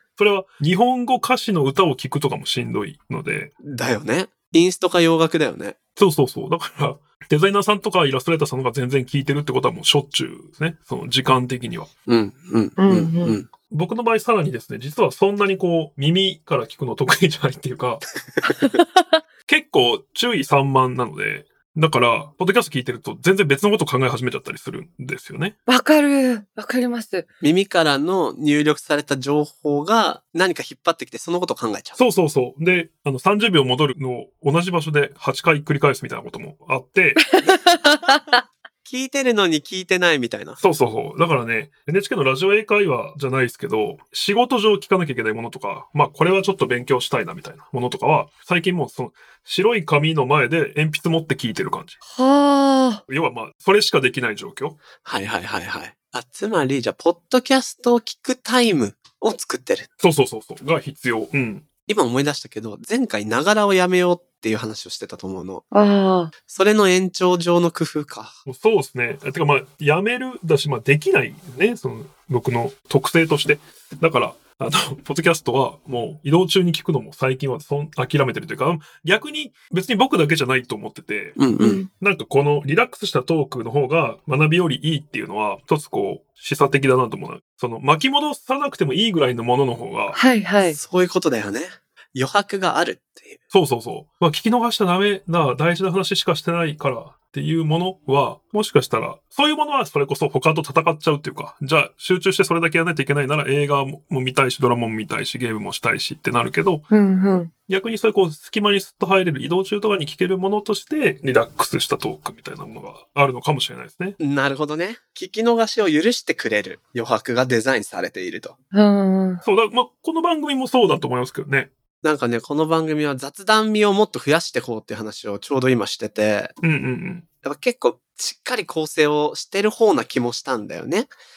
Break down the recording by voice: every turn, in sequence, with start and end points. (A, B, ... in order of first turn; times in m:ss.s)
0:00.2-0:03.5 A
0:03.6-0:05.8 B
0:06.0-0:11.9 A
0:12.1-0:13.5 B
0:12.8-0:13.4 C
0:13.7-0:18.0 A
0:18.4-0:19.2 C
0:19.5-0:25.6 A
0:25.7-0:27.3 C
0:27.4-0:32.0 B
0:32.0-0:37.2 A
0:37.3-0:38.4 C
0:37.4-0:38.2 B
0:38.9-0:40.6 B
0:40.6-0:52.0 A
0:52.1-0:53.0 C
0:53.1-0:54.8 A
0:55.0-0:59.9 B
1:00.0-1:01.7 A
1:01.9-1:05.6 B
1:05.7-1:06.3 C
1:06.5-1:08.4 B
1:08.5-1:30.2 A
1:21.4-1:21.8 B
1:21.6-1:21.9 C
1:30.1-1:30.8 C
1:30.6-1:33.4 B
1:33.5-1:46.9 A
1:46.9-1:47.5 C
1:47.7-1:54.2 A
1:54.2-1:58.6 B
1:58.7-1:59.4 C
1:59.4-2:01.7 A
2:02.0-2:06.5 B
2:06.6-2:07.3 A
2:07.4-2:11.1 B